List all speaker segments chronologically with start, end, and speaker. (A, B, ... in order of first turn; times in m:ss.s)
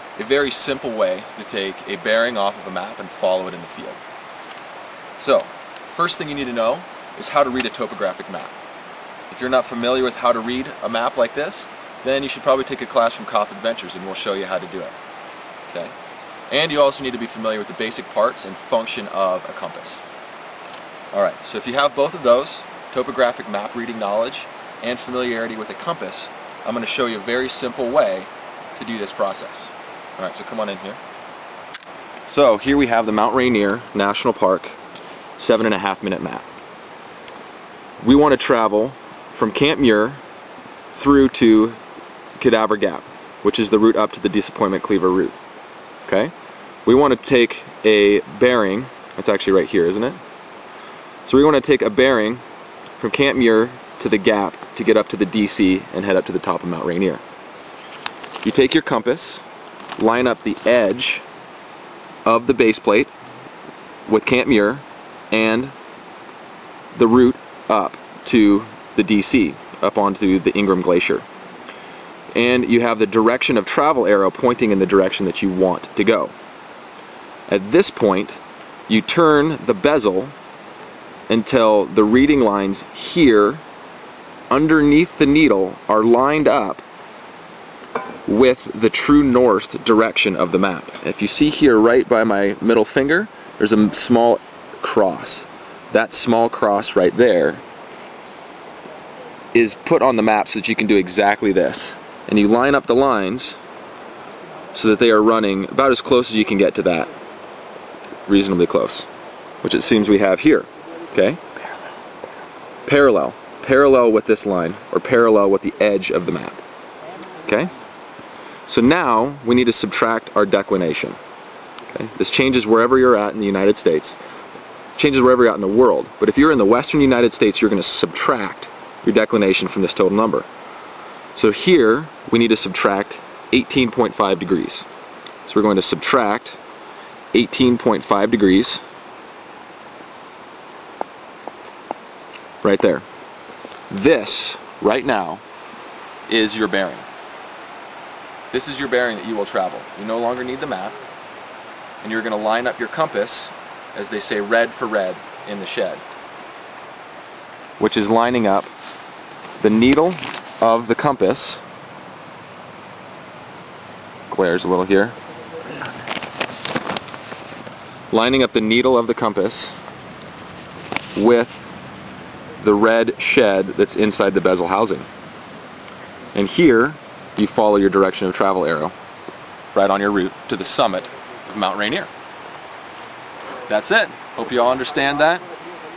0:00.2-0:04.0 A
0:05.2-0:08.5 A
0:09.3-0:15.0 A
0:15.7-0:15.9 A
0:16.5-0:20.0 A
0:21.1-0:31.0 A
0:32.3-0:34.8 A
0:35.4-0:36.5 A
0:38.0-0:40.2 A
0:40.9-0:41.8 A
0:42.4-0:45.4 A
0:46.1-0:46.3 A
0:46.8-0:50.2 A
0:51.3-0:52.4 A
0:53.0-0:57.2 A
0:58.4-0:59.4 A
1:00.0-1:01.2 A
1:02.2-1:03.1 A
1:04.1-1:05.7 A
1:06.9-1:11.2 A
1:12.3-1:16.3 A
1:17.5-1:20.3 A
1:21.3-1:23.6 A
1:24.5-1:26.8 A
1:28.3-1:37.6 A
1:39.5-1:43.6 A
1:44.7-1:47.1 A
1:48.3-1:49.1 A
1:49.6-1:51.6 A
1:52.8-1:56.6 A
1:57.4-1:57.7 A
1:58.7-2:01.2 A
2:01.9-2:04.2 A
2:05.0-2:10.5 A
2:11.4-2:14.9 A
2:15.5-2:16.6 A
2:17.3-2:18.8 A
2:22.6-2:23.0 A
2:23.9-2:25.4 A
2:26.3-2:27.1 A
2:28.5-2:31.0 A
2:32.0-2:36.0 A
2:37.8-2:38.7 A
2:39.6-2:41.6 A
2:44.3-2:45.2 A
2:48.1-2:49.8 A
2:51.2-2:51.8 A
2:52.6-2:55.1 A
2:56.3-2:58.9 A
2:59.7-3:02.1 A
3:03.7-3:05.5 A